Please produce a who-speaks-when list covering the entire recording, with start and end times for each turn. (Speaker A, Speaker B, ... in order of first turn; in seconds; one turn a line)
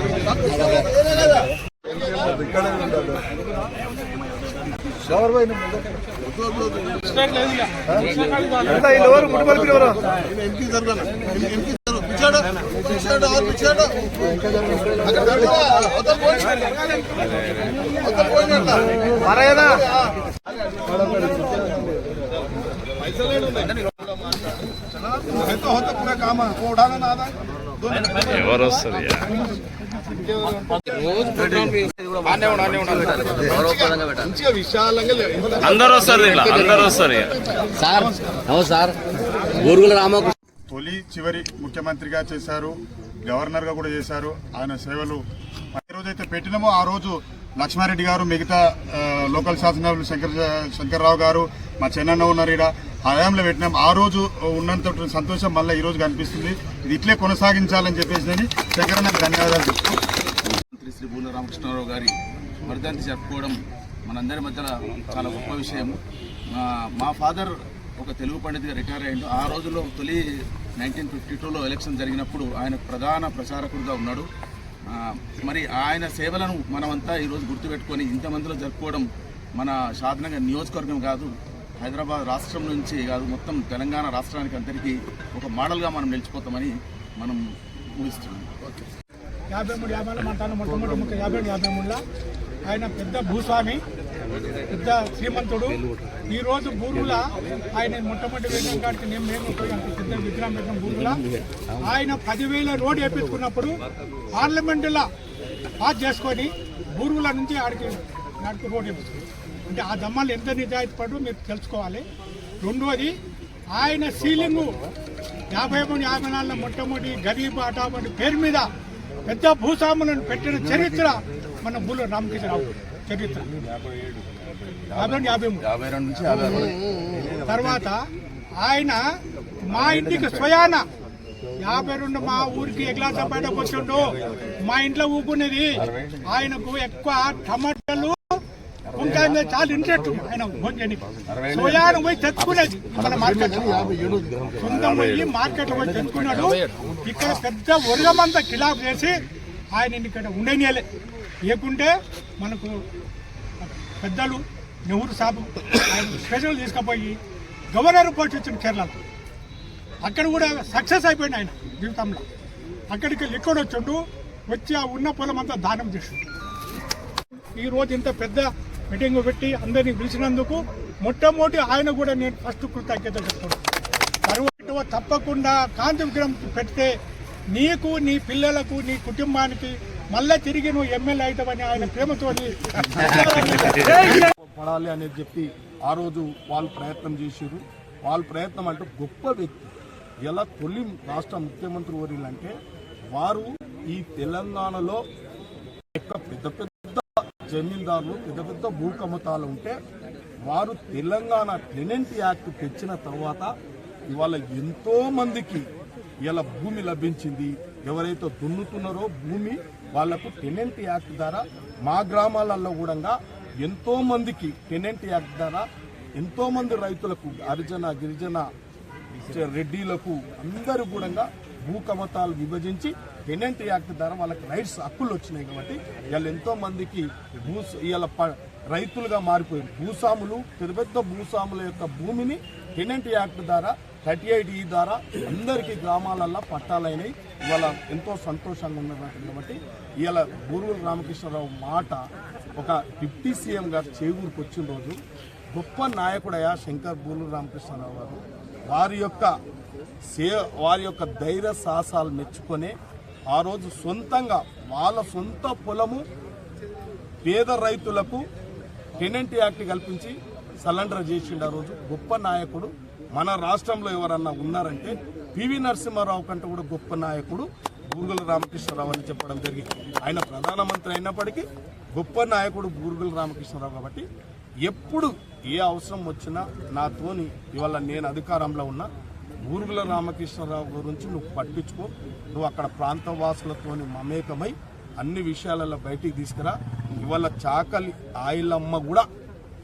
Speaker A: 0.5-0.9
Speaker B: 6.4-9.4
Speaker B: 11.7-12.4
Speaker B: 13.1-13.8
Speaker C: 15.1-17.0
Speaker B: 16.1-16.4
Speaker C: 18.1-20.0
Speaker C: 20.9-21.7
Speaker C: 23.0-24.5
Speaker C: 25.1-28.8
Speaker D: 28.1-29.3
Speaker C: 30.1-31.1
Speaker B: 30.9-33.7
Speaker A: 31.0-34.3
Speaker C: 33.6-36.5
Speaker D: 35.6-37.4
Speaker A: 37.8-39.0
Speaker A: 39.6-40.4
Speaker E: 40.7-45.2
Speaker E: 45.7-60.0
Speaker B: 60.5-62.1
Speaker B: 62.6-66.0
Speaker B: 66.5-70.2
Speaker B: 70.8-74.3
Speaker B: 74.9-87.4
Speaker B: 88.0-88.6
Speaker F: 89.5-92.0
Speaker F: 92.7-93.8
Speaker F: 94.7-101.2
Speaker F: 101.8-103.7
Speaker F: 104.3-105.1
Speaker F: 105.8-109.2
Speaker F: 109.7-112.0
Speaker F: 112.6-113.1
Speaker F: 113.7-114.7
Speaker F: 115.5-118.7
Speaker F: 119.3-123.5
Speaker F: 124.9-125.6
Speaker B: 125.0-127.2
Speaker F: 127.4-128.0
Speaker F: 128.6-129.0
Speaker F: 129.7-130.9
Speaker F: 131.6-138.2
Speaker B: 135.9-136.2
Speaker F: 138.9-143.8
Speaker B: 141.3-141.9
Speaker B: 143.7-144.5
Speaker F: 144.6-149.2
Speaker F: 149.7-150.9
Speaker F: 151.5-152.8
Speaker F: 153.6-157.2
Speaker F: 157.7-159.0
Speaker F: 160.0-162.2
Speaker F: 162.9-166.2
Speaker F: 167.6-173.6
Speaker F: 174.3-176.9
Speaker F: 177.5-184.3
Speaker C: 183.3-189.7
Speaker C: 190.3-192.6
Speaker C: 193.1-195.0
Speaker C: 195.9-199.8
Speaker C: 200.5-203.5
Speaker C: 204.1-205.7
Speaker C: 206.2-215.7
Speaker C: 216.2-218.5
Speaker C: 219.2-242.0
Speaker C: 242.6-245.0
Speaker C: 245.5-249.3
Speaker C: 250.1-252.7
Speaker C: 253.3-256.0
Speaker C: 257.2-258.2
Speaker C: 259.0-274.1
Speaker C: 274.7-278.9
Speaker C: 279.5-289.1